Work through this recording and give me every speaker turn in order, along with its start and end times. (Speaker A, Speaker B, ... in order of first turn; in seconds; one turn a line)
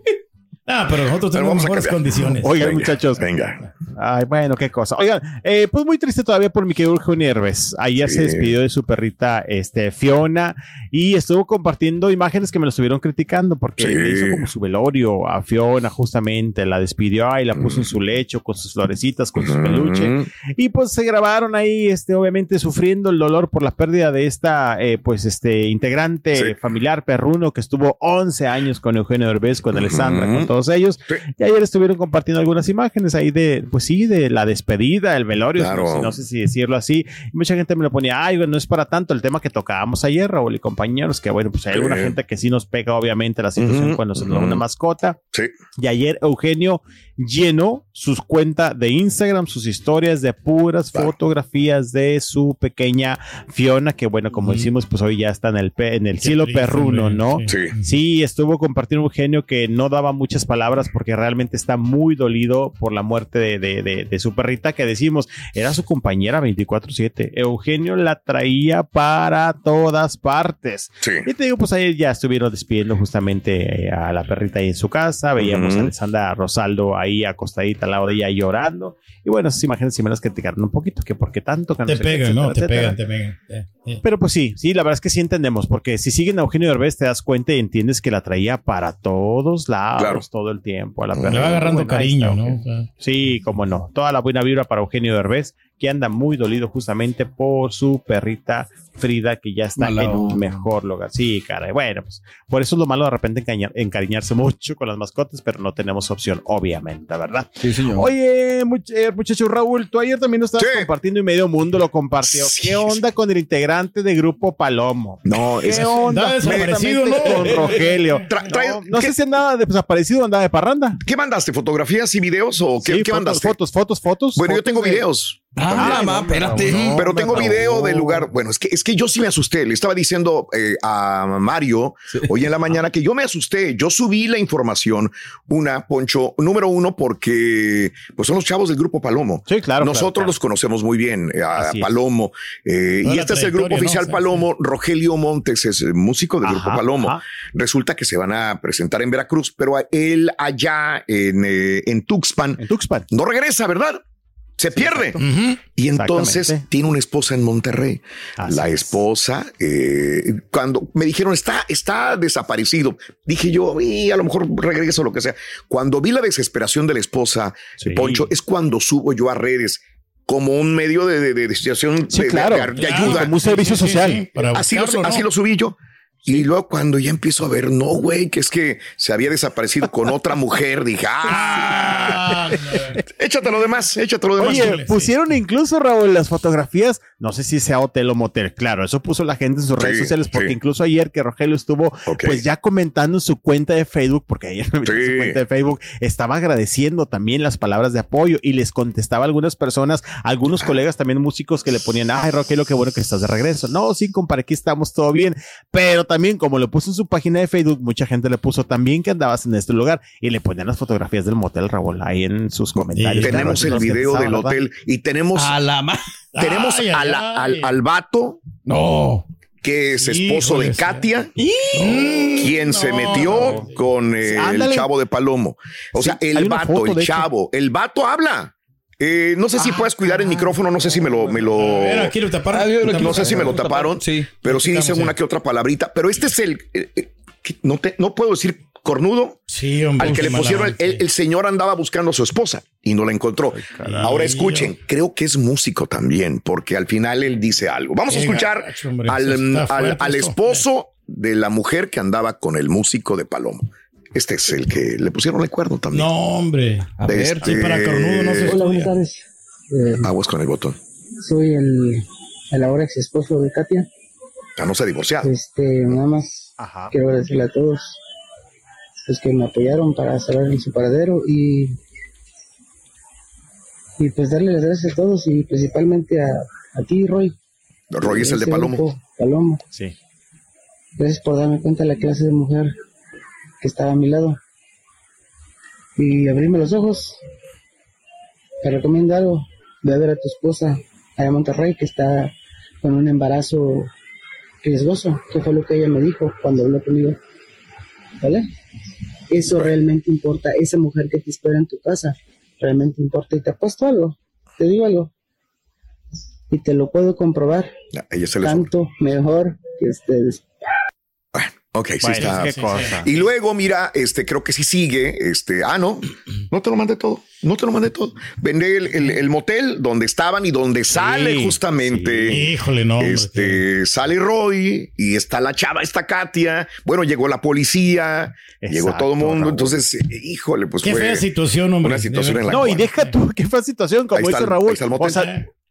Speaker A: 0.7-2.8
Speaker B: 1.3-3.6
Speaker C: 2.4-3.2
Speaker C: 3.9-45.2
Speaker B: 8.0-8.5
Speaker B: 13.8-14.5
Speaker B: 17.5-17.9
Speaker B: 19.4-20.3
Speaker B: 29.7-30.5
Speaker B: 35.6-36.1
Speaker B: 41.7-42.1
Speaker B: 43.6-44.6
Speaker C: 45.8-83.0
Speaker A: 54.4-54.7
Speaker A: 56.2-57.9
Speaker B: 57.5-57.7
Speaker B: 71.0-71.2
Speaker B: 75.4-75.9
Speaker A: 81.8-84.0
Speaker C: 84.0-121.0
Speaker B: 90.0-90.2
Speaker B: 91.1-91.6
Speaker A: 91.3-92.9
Speaker D: 99.8-100.5
Speaker D: 107.6-108.1
Speaker B: 110.6-110.9
Speaker B: 112.2-113.0
Speaker B: 115.2-117.7
Speaker A: 115.8-117.6
Speaker B: 118.2-119.2
Speaker B: 121.0-123.6
Speaker C: 122.8-125.0
Speaker B: 124.3-154.0
Speaker D: 125.5-127.1
Speaker C: 125.7-128.3
Speaker C: 139.5-140.3
Speaker C: 141.5-141.9
Speaker A: 143.0-144.4
Speaker C: 146.4-147.2
Speaker C: 152.6-153.1
Speaker B: 154.6-155.2
Speaker C: 154.8-155.2
Speaker A: 155.2-155.6
Speaker B: 155.7-173.5
Speaker C: 155.9-156.6
Speaker C: 158.4-159.0
Speaker C: 167.8-168.3
Speaker C: 172.1-174.2
Speaker A: 172.8-175.2
Speaker B: 174.4-182.2
Speaker A: 181.3-183.0
Speaker B: 183.1-184.8
Speaker C: 184.4-214.6
Speaker A: 184.4-185.1
Speaker B: 189.8-190.5
Speaker B: 192.1-192.4
Speaker B: 194.8-195.4
Speaker A: 212.9-213.8
Speaker B: 213.2-215.6
Speaker D: 215.3-216.0
Speaker A: 216.3-217.7
Speaker B: 216.4-218.4
Speaker A: 218.7-219.2
Speaker B: 219.6-221.3
Speaker A: 220.0-221.0
Speaker D: 221.4-222.4
Speaker A: 221.7-223.7
Speaker B: 222.3-232.2
Speaker C: 224.2-224.9
Speaker C: 226.0-227.3
Speaker A: 231.5-233.6
Speaker D: 232.5-234.4
Speaker B: 232.8-239.4
Speaker A: 234.5-235.1
Speaker A: 239.5-241.0
Speaker B: 240.0-256.1
Speaker C: 243.5-244.2
Speaker A: 243.8-244.7
Speaker A: 248.1-250.6
Speaker A: 255.9-258.9
Speaker D: 257.0-257.5
Speaker B: 257.1-258.6
Speaker E: 258.4-260.1
Speaker B: 260.0-260.8
Speaker E: 261.2-263.9
Speaker B: 264.6-265.3
Speaker E: 265.2-268.0
Speaker C: 266.6-266.9
Speaker E: 269.1-271.8
Speaker E: 274.0-277.4
Speaker B: 277.9-278.9
Speaker E: 278.0-279.6
Speaker E: 281.0-282.7
Speaker E: 283.6-284.4
Speaker E: 286.0-287.2
Speaker E: 288.6-293.9
Speaker E: 294.6-297.2
Speaker E: 298.2-298.4
Speaker E: 299.3-305.1
Speaker E: 306.5-307.7
Speaker B: 307.9-308.7
Speaker E: 308.4-310.4
Speaker B: 311.3-322.4
Speaker C: 312.0-313.1
Speaker A: 312.2-313.0
Speaker C: 320.9-322.4
Speaker A: 322.3-323.6
Speaker B: 323.0-331.3
Speaker C: 328.6-329.7
Speaker A: 330.8-333.1
Speaker B: 331.8-332.9
Speaker C: 332.5-335.3
Speaker B: 334.1-335.3